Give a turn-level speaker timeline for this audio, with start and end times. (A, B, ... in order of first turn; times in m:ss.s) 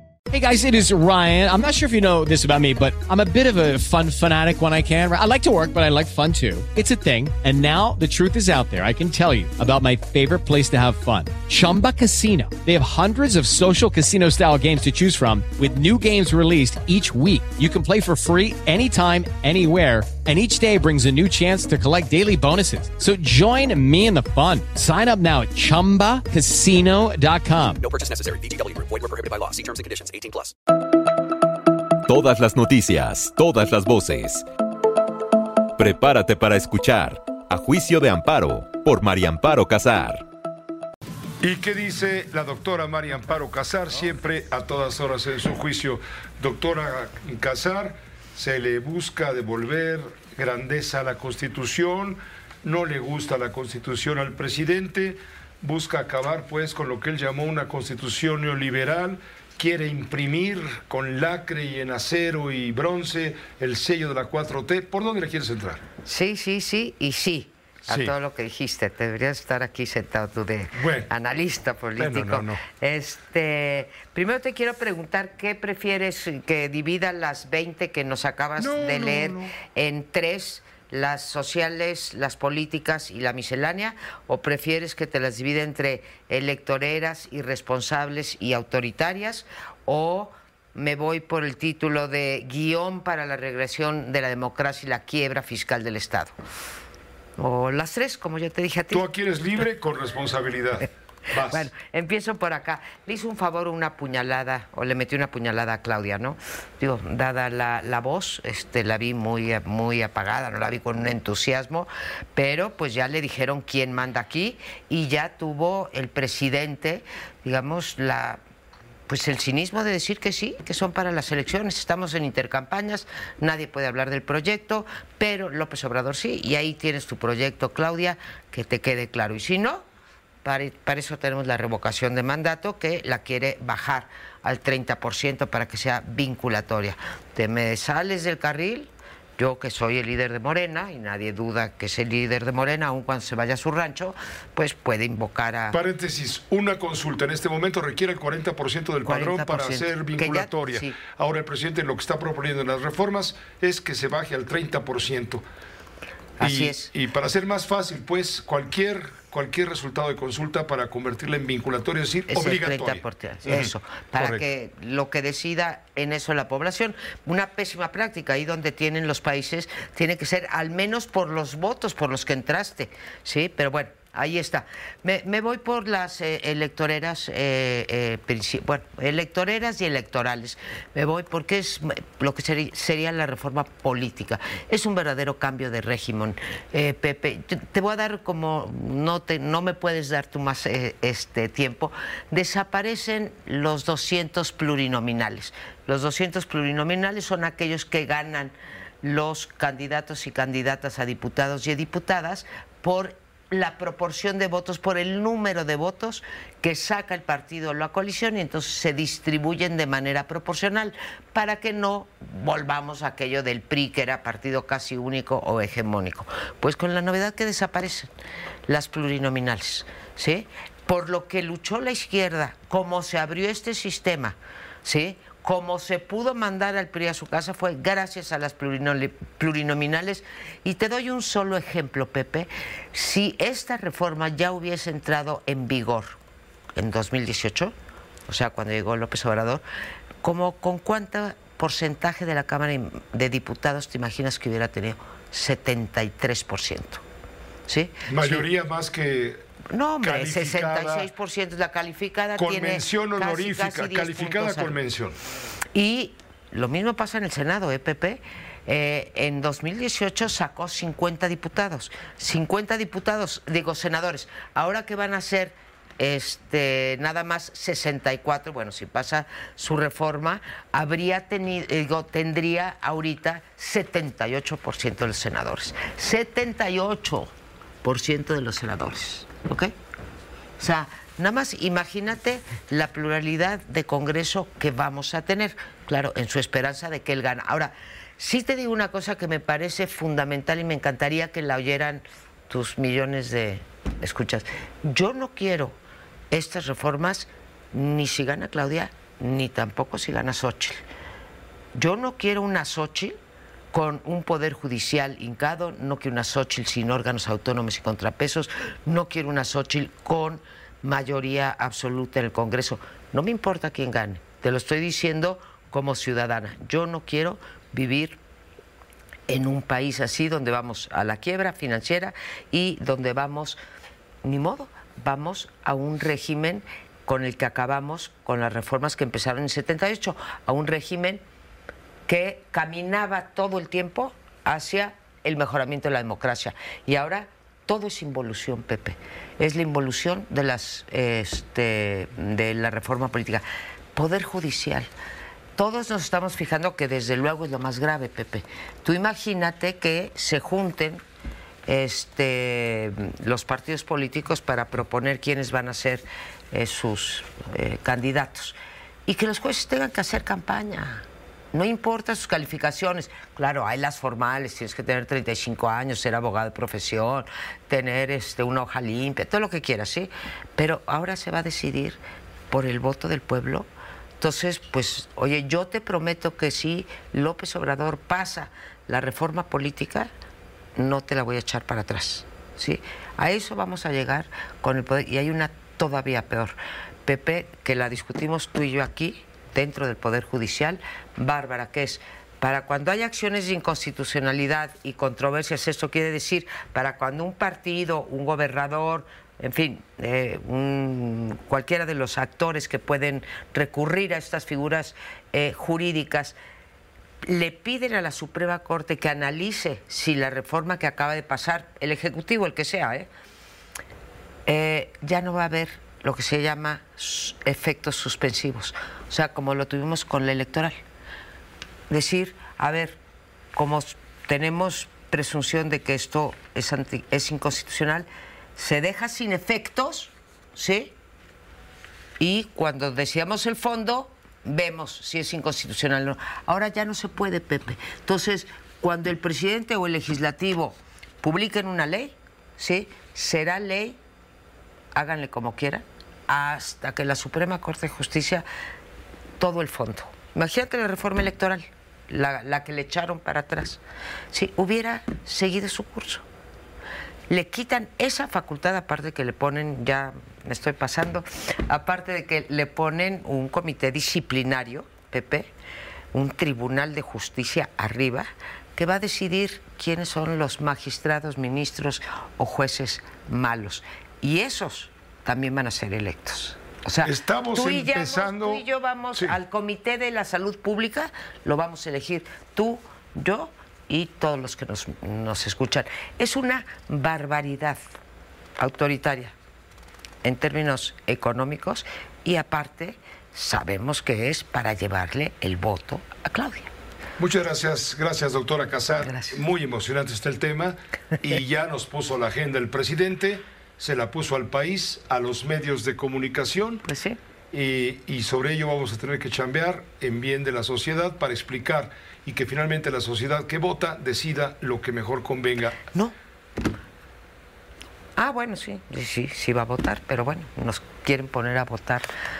0:00.3-0:27.8 A
0:27.8-0:30.5 B
0:32.1-0:34.4 C
0:35.8-0:40.2 C
0:41.4-1:05.8 D
1:06.0-1:36.3 E
1:07.9-1:08.1 D
1:10.7-1:11.1 D
1:12.0-1:12.6 D
1:18.6-1:19.5 D
1:37.4-1:39.0 E
1:38.9-1:41.7 D
1:41.3-1:58.4 E
1:59.1-2:09.8 E
2:10.4-2:25.8 E
2:25.7-2:35.4 D
2:29.0-2:31.0 E
2:36.4-2:36.9 E
2:36.4-2:44.4 D
2:42.3-3:38.1 E
3:38.7-3:56.2 E
3:56.8-3:57.7 E
3:58.3-3:59.6 E
4:00.2-4:07.0 E
4:07.7-4:08.5 E
4:08.1-4:09.4 D
4:09.7-4:14.8 E
4:10.0-4:11.1 D
4:12.4-4:15.2 D
4:15.7-4:37.3 E
4:37.8-4:39.7 E
4:40.6-4:55.8 E
4:56.3-5:00.8 E
5:01.7-5:03.1 E
5:03.7-5:18.2 E
5:19.3-5:23.6 E
5:24.2-5:31.2 E
5:32.1-5:44.9 E
5:45.6-5:51.0 E
5:51.7-6:13.7 E
6:14.2-6:20.1 E
6:20.8-6:46.4 E
6:47.2-6:53.1 E
6:54.4-7:00.7 E
7:01.9-7:03.0 E
7:03.5-7:10.9 E
7:12.2-7:24.0 E
7:24.9-7:28.4 E
7:29.4-7:33.8 E
7:34.3-7:36.2 E
7:37.3-7:45.5 E
7:46.1-8:07.8 E
7:57.0-7:59.4 D
8:08.6-8:09.3 E
8:10.2-8:16.7 E
8:17.2-8:26.8 D
8:19.0-8:19.4 E
8:26.8-8:27.2 E
8:27.5-8:35.8 D
8:38.2-8:42.1 E